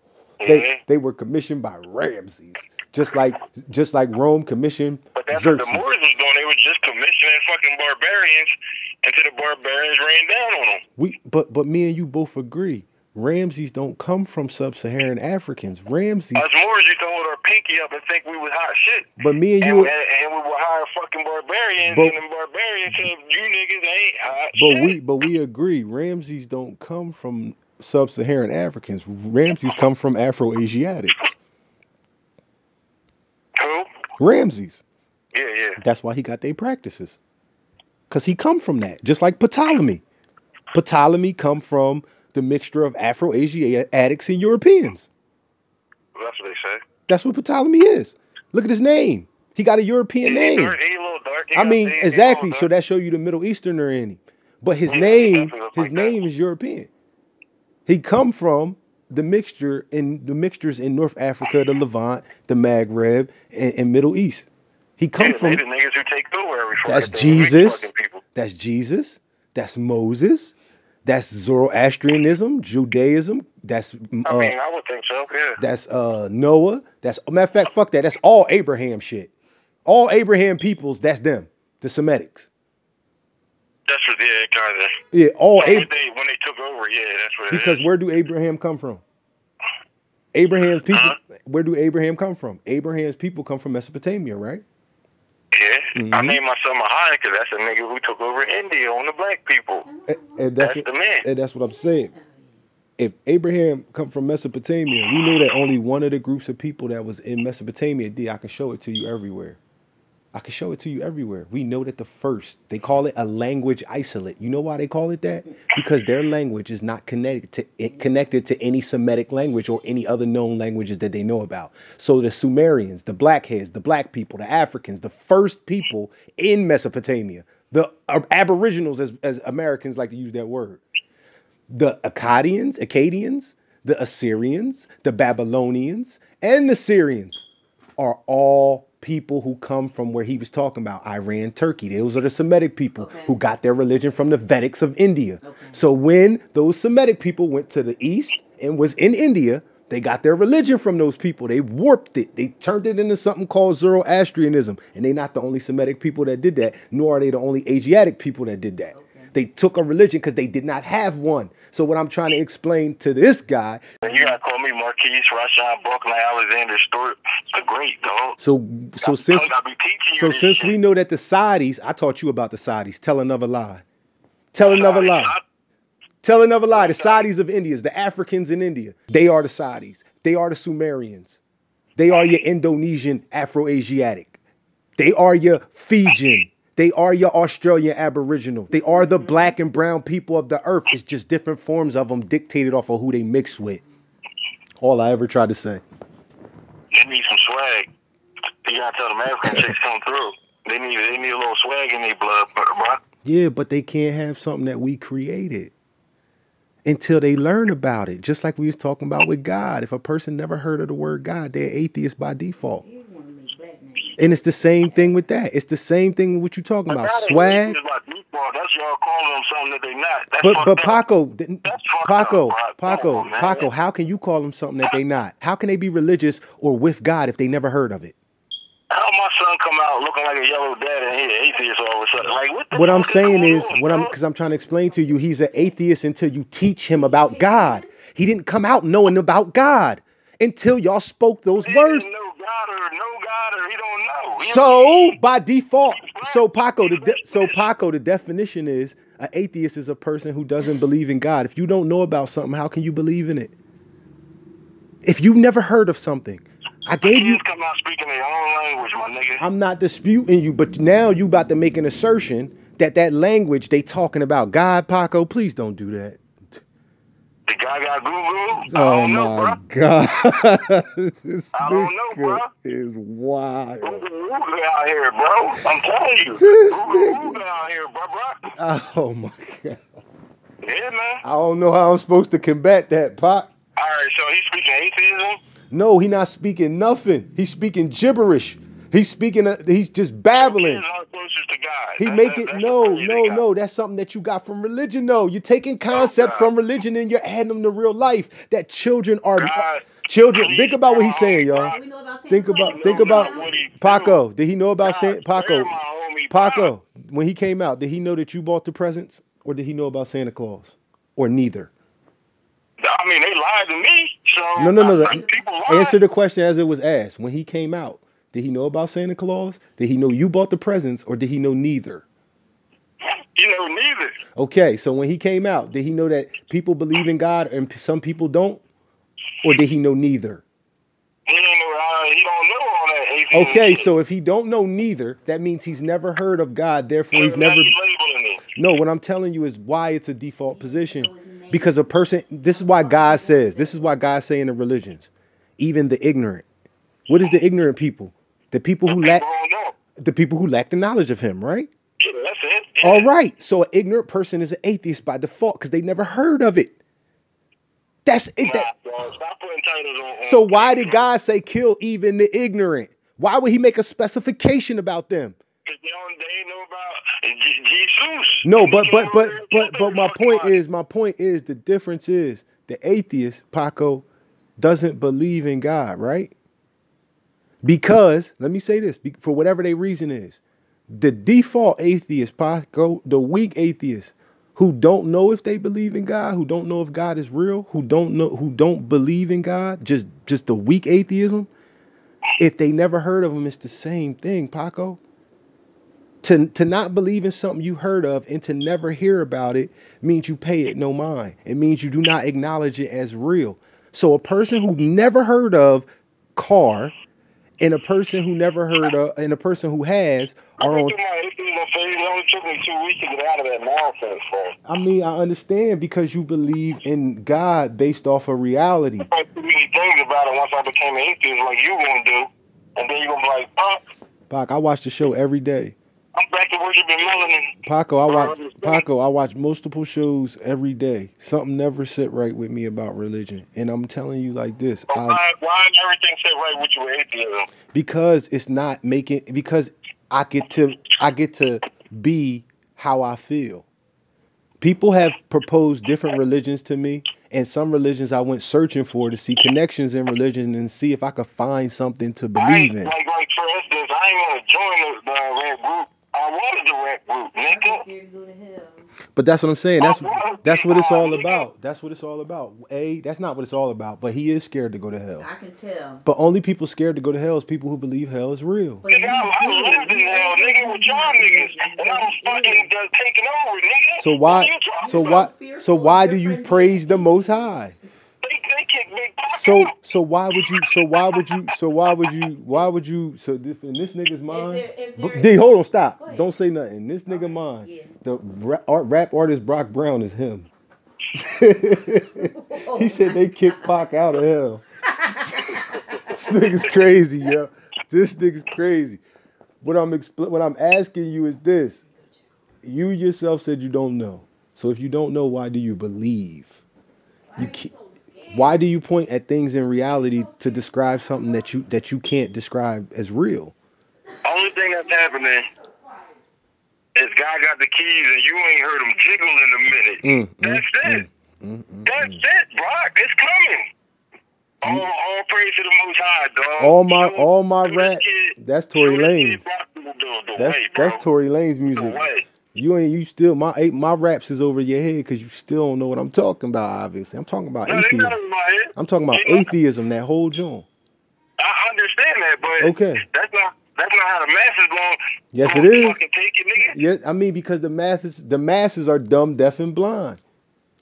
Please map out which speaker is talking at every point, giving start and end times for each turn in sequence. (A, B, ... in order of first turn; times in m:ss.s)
0:00.4-0:00.8 A
0:00.4-0:05.9 B
0:05.2-0:10.8 A
0:11.0-0:16.5 B
0:16.3-0:19.1 A
0:19.2-0:19.9 B
0:19.6-0:24.9 A
0:21.8-0:22.2 B
0:24.6-0:31.4 B
0:33.6-0:33.9 A
0:34.2-0:34.8 B
0:35.3-0:35.8 A
0:35.8-0:37.2 B
0:38.1-0:40.0 B
0:40.7-0:45.1 B
0:46.1-0:46.8 A
0:47.1-0:50.8 B
0:50.2-0:52.7 A
0:51.5-0:56.9 B
0:54.9-0:56.2 A
0:57.8-1:04.5 B
1:05.0-1:05.6 B
1:05.2-1:08.2 A
1:06.8-1:14.5 B
1:14.2-1:15.6 A
1:15.6-1:19.3 B
1:19.8-1:22.5 B
1:23.9-1:25.0 A
1:25.1-1:25.9 B
1:25.6-1:27.8 A
1:27.5-1:29.0 B
1:30.3-1:34.6 B
1:30.9-1:31.2 A
1:35.5-1:39.9 A
1:35.9-1:36.4 B
1:39.9-1:40.4 C
1:40.1-1:42.1 B
1:40.6-1:41.2 A
1:42.1-1:42.4 C
1:43.0-1:49.6 B
1:50.3-2:10.8 B
2:11.7-2:17.4 B
2:18.0-2:43.8 B
2:23.0-2:23.3 C
2:25.4-2:25.8 C
2:38.9-2:39.3 C
2:44.0-2:48.4 A
2:48.4-2:49.5 B
2:49.0-2:50.8 A
2:50.1-2:53.8 B
2:54.5-2:55.4 B
2:54.6-2:55.4 A
2:56.2-3:01.4 B
2:56.7-2:57.2 A
3:02.0-3:04.4 B
3:05.0-3:13.8 B
3:08.8-3:09.5 C
3:14.8-3:15.8 B
3:16.9-3:17.9 A
3:18.6-3:23.0 A
3:23.2-3:25.7 B
3:26.8-3:32.8 B
3:32.8-3:34.3 C
3:34.2-3:37.8 B
3:36.9-3:41.0 A
3:40.4-3:48.2 B
3:41.6-3:43.7 A
3:48.9-3:54.1 A
3:52.7-4:02.1 B
3:56.9-3:57.9 C
4:01.6-4:05.2 A
4:04.4-4:13.5 B
4:05.9-4:07.6 A
4:15.0-4:17.4 B
4:17.0-4:19.4 A
4:19.4-4:26.6 B
4:27.5-4:29.6 A
4:28.7-4:34.0 B
4:31.5-4:32.5 A
4:33.8-4:38.4 A
4:36.4-4:37.4 B
4:38.5-4:39.8 B
4:40.6-4:41.2 A
4:41.2-4:43.5 B
4:43.8-4:45.4 A
4:45.7-4:50.8 B
4:50.3-4:53.4 A
4:52.0-5:01.7 B
4:55.9-4:56.5 A
4:59.4-5:01.8 A
5:01.5-5:03.7 C
5:02.3-5:05.7 B
5:02.6-5:04.2 A
5:04.8-5:06.7 A
5:06.3-5:11.7 B
5:12.8-5:16.0 A
5:14.6-5:22.0 B
5:23.4-5:24.1 A
5:24.4-5:28.6 B
5:29.4-5:30.4 B
5:31.3-5:33.9 A
5:33.3-5:37.7 B
5:37.1-5:38.4 A
5:38.5-5:46.4 B
5:40.5-5:44.1 C
5:47.1-5:49.2 B
5:48.9-5:49.7 A
5:50.0-5:51.7 B
5:52.0-5:53.1 A
5:52.8-5:56.7 B
5:58.0-5:58.7 B
5:58.4-6:01.0 A
6:00.2-6:05.4 B
6:05.6-6:10.5 A
6:08.4-6:14.0 B
6:14.6-6:16.3 B
6:17.6-6:31.5 B
6:32.4-6:35.0 B
6:36.2-6:46.9 B
6:47.6-6:50.9 B
6:50.6-6:54.6 A
6:54.6-6:59.1 B
6:59.0-7:03.8 A
7:04.3-7:05.8 B
7:06.2-7:07.5 A
7:07.6-7:15.2 B
7:08.1-7:08.8 A
7:14.9-7:17.5 A
7:17.7-7:23.6 B
7:24.6-7:32.9 B
7:32.4-7:37.8 A
7:37.5-7:38.9 C
7:39.1-7:45.3 B
7:39.8-7:41.5 A
7:45.2-7:46.0 C
7:46.0-7:48.8 B
7:48.8-7:52.7 C
7:48.9-7:55.3 A
7:54.0-7:57.8 B
7:54.8-7:57.5 C
7:58.2-7:59.7 A
7:59.3-8:10.5 B
8:00.5-8:01.3 A
8:04.3-8:05.4 C
8:05.9-8:06.3 C
8:07.1-8:07.9 C
8:11.1-8:14.6 B
8:12.3-8:13.7 C
8:14.8-8:16.7 C
8:16.1-8:19.0 B
8:19.6-8:21.8 B
8:22.6-8:26.6 B
8:27.3-8:28.6 C
8:27.4-8:27.7 B
8:28.3-8:33.5 B
8:34.2-8:35.5 A
8:36.9-8:41.0 A
8:40.0-8:42.2 B
8:41.8-8:43.7 A
8:44.6-8:51.0 A
8:46.6-8:49.4 B
8:50.4-8:58.1 B
8:51.7-8:52.3 A
8:57.6-8:59.5 A
8:58.8-9:00.7 B
9:01.4-9:06.8 A
9:02.6-9:03.0 B
9:05.3-9:06.0 B
9:06.6-9:10.2 B